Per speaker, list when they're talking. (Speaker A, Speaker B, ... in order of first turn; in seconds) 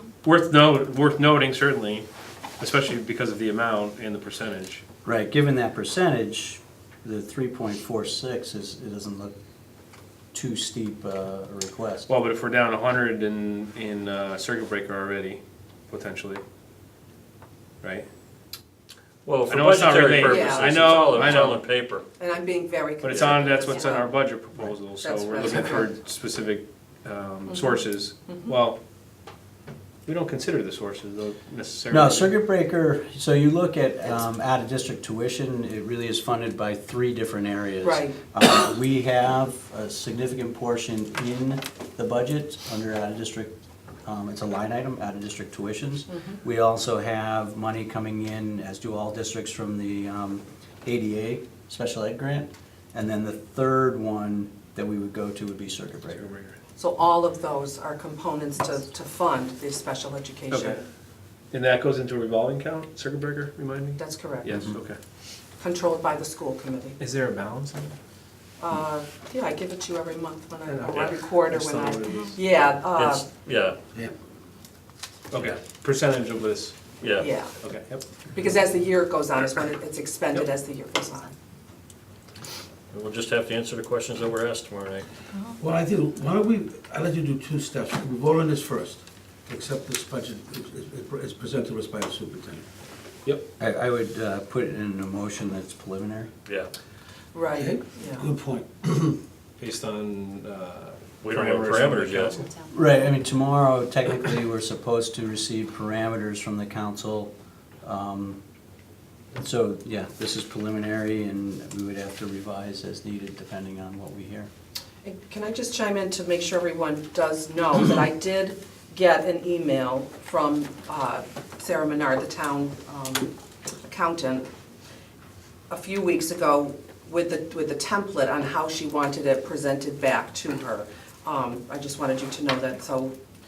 Speaker A: 0.2-2.1, 2.6-4.8, 12.1-16.4, 17.8-18.1, 19.5-21.6, 23.0-28.8, 30.1-32.3, 56.2-56.5, 60.5-60.8, 61.5-65.0, 67.0-68.0, 70.7-72.4, 75.3-76.8, 77.6-78.0, 99.6-102.5
Speaker B: 5.0-9.3, 10.3-12.1, 31.9-43.5, 44.1-56.3, 64.5-64.8, 93.6-96.3, 102.7-107.3, 107.8-108.4, 109.3-114.5
Speaker C: 19.2-22.1, 72.9-73.8, 75.3-75.6, 77.0-77.3, 82.9-85.1, 101.2-102.5
Speaker D: 20.2-21.6, 22.2-24.2, 25.0-25.9, 27.5-28.5, 37.8-38.2, 56.8-60.8, 64.0-64.5, 65.6-67.0, 68.6-73.3, 77.2-77.5, 78.3-81.3, 97.3-98.3, 115.0-123.3, 123.9-124.5, 125.7-133.1
Speaker E: 85.5-92.7, 97.5-99.2